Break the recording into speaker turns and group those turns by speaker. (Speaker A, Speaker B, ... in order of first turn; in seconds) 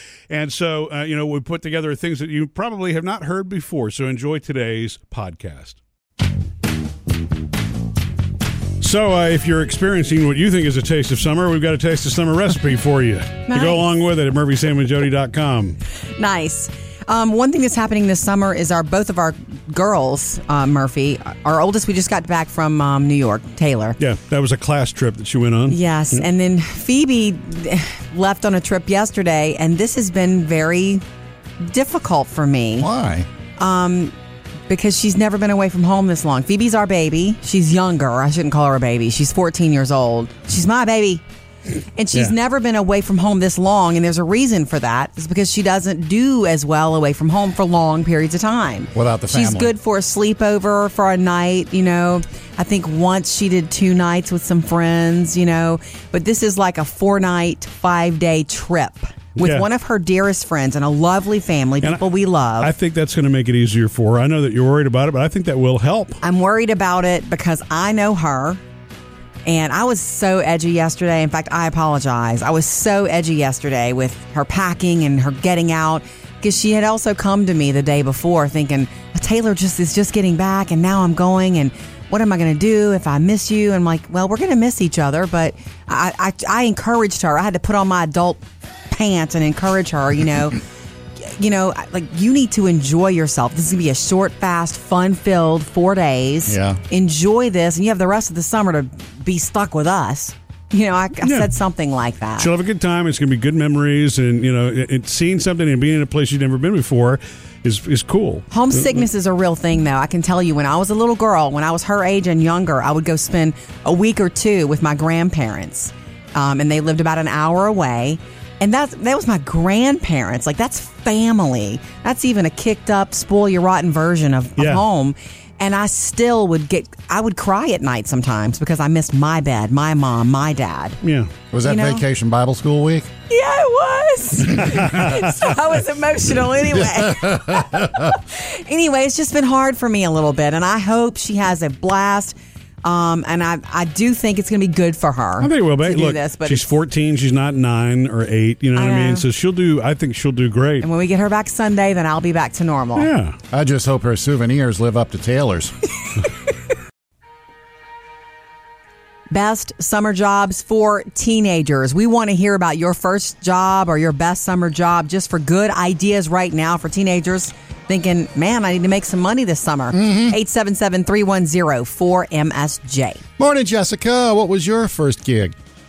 Speaker A: 0.3-5.8, 8.8-15.8, 24.0-26.3, 59.4-59.7, 62.6-66.2, 101.2-101.5, 102.4-109.0, 124.6-124.8, 131.0-131.3, 134.6-135.3, 145.4-150.9, 153.0-153.4
Speaker B: 13.5-13.8, 16.2-24.0, 25.7-31.0, 31.6-32.9, 33.6-34.1, 34.7-41.2, 42.0-62.7, 66.2-68.6, 69.5-90.6, 91.2-102.5, 108.5-131.0, 131.6-132.0, 133.3-146.7, 148.8-149.2, 150.8-153.1, 159.3-173.2
Speaker C: 32.8-33.3, 48.9-49.7, 96.5-96.8, 131.5-133.1, 136.7-138.2, 153.5-155.7, 169.9-170.4, 173.4-175.5